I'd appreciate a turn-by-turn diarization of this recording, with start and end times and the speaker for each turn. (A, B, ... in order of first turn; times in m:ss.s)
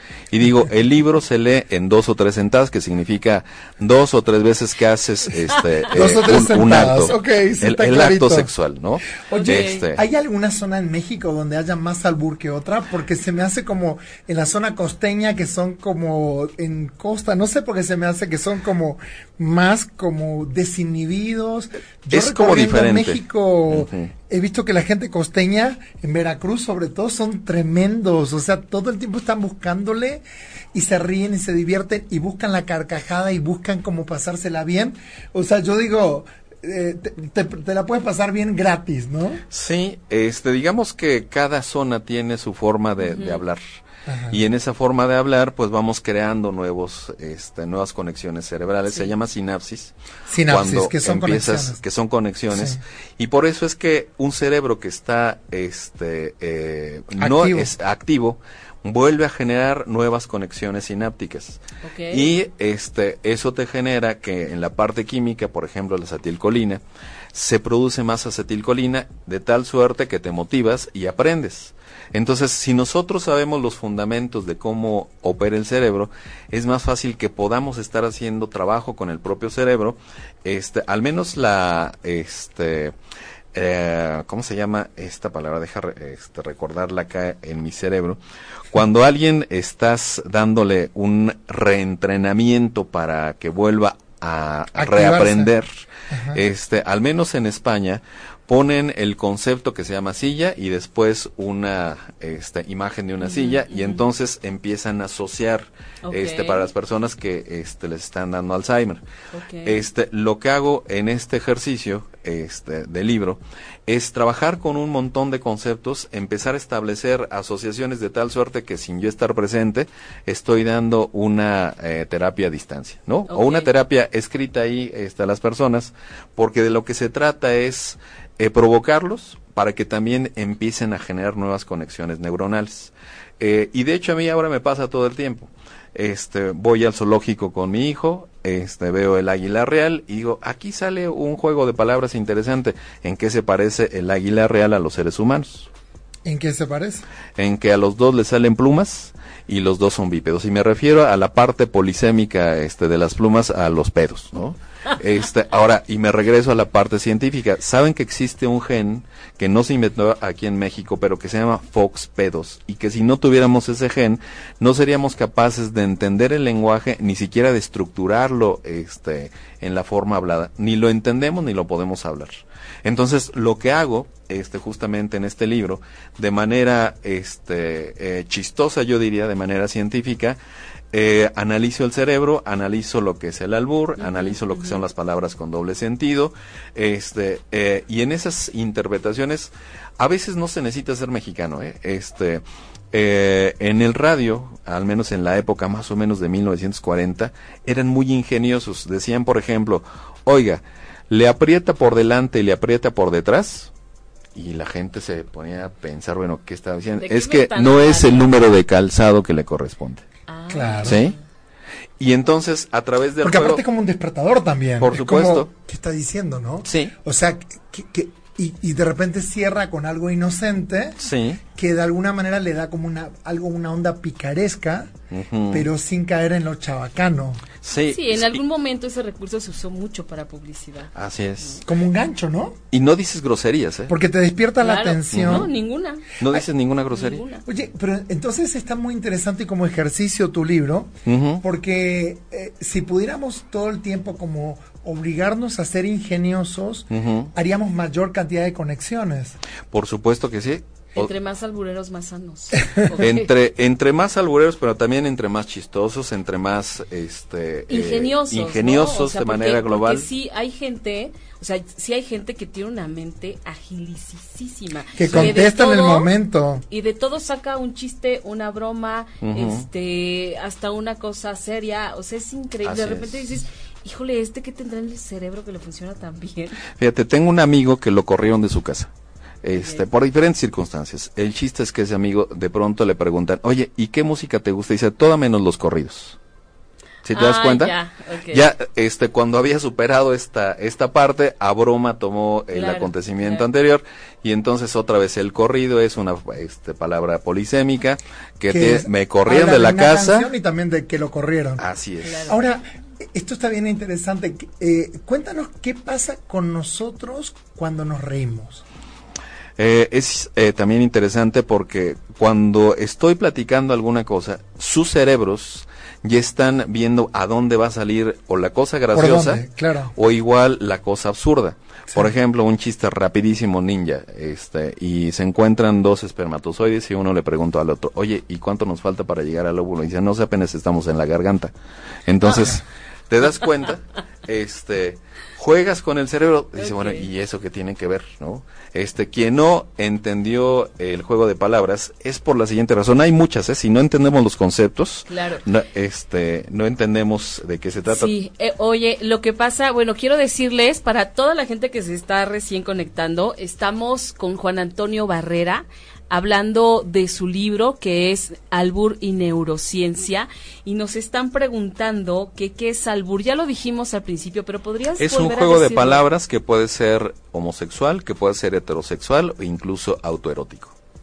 0:00.3-0:10.0 A
0:05.9-0:08.5 B
0:09.3-0:39.4 B
0:09.3-0:09.8 C
0:22.1-0:24.1 A
0:39.5-0:43.6 A
0:43.0-0:43.4 C
0:44.1-0:44.4 B
0:44.3-0:49.9 A
0:50.3-0:51.8 B
0:50.5-1:01.6 A
0:52.5-0:52.8 B
0:57.2-0:57.7 B
1:01.8-1:02.3 C
1:02.1-1:06.8 A
1:07.3-1:23.0 A
1:23.5-1:28.2 A
1:28.7-1:35.7 A
1:34.8-1:35.5 B
1:36.1-1:36.4 B
1:36.3-1:49.0 A
1:43.2-1:44.0 C
1:46.0-1:46.7 C
1:49.3-1:49.8 C
1:49.6-2:25.7 A
2:03.3-2:03.7 C
2:26.2-2:27.0 B
2:27.4-3:00.4 A
3:00.9-3:23.7 A
3:04.0-3:04.8 C
3:24.4-3:30.0 A
3:27.0-3:28.3 C
3:30.3-3:31.1 C
3:30.5-3:31.0 B
3:30.8-3:31.2 A
3:32.0-3:33.6 A
3:33.2-3:41.0 B
3:34.8-3:35.5 A
3:36.6-3:36.9 A
3:41.0-3:41.4 A
3:41.6-3:44.9 B
3:45.1-3:45.7 A
3:45.5-3:47.4 B
3:47.6-3:48.4 A
3:47.9-3:50.9 C
3:51.0-3:51.6 A
3:51.6-3:52.6 B
3:52.7-3:53.9 A
3:53.9-3:55.5 B
3:54.6-3:56.2 C
3:55.1-3:55.5 A
3:56.2-3:57.2 A
3:56.9-3:57.4 C
3:57.5-4:09.4 B
4:01.0-4:01.4 A
4:06.9-4:07.3 A
4:09.7-4:11.1 A
4:11.0-4:13.3 C
4:13.0-4:20.1 A
4:17.7-4:26.1 C
4:25.0-4:26.6 B
4:25.1-4:25.4 A
4:26.7-4:36.6 C
4:29.2-4:29.7 A
4:32.6-4:33.2 A
4:36.8-4:38.9 A
4:39.4-4:46.2 A
4:39.6-4:39.8 C
4:47.0-4:47.8 A
4:47.1-4:48.4 C
4:48.3-5:00.3 A
4:52.5-4:53.5 C
4:58.5-5:01.6 B
5:01.6-5:02.3 A
5:02.0-5:02.4 C
5:02.3-5:08.6 B
5:09.6-5:31.5 A
5:18.9-5:19.9 B
5:32.1-5:48.1 A
5:36.6-5:37.1 C
5:45.1-5:45.4 C
5:47.9-6:06.0 C
6:05.0-6:10.7 A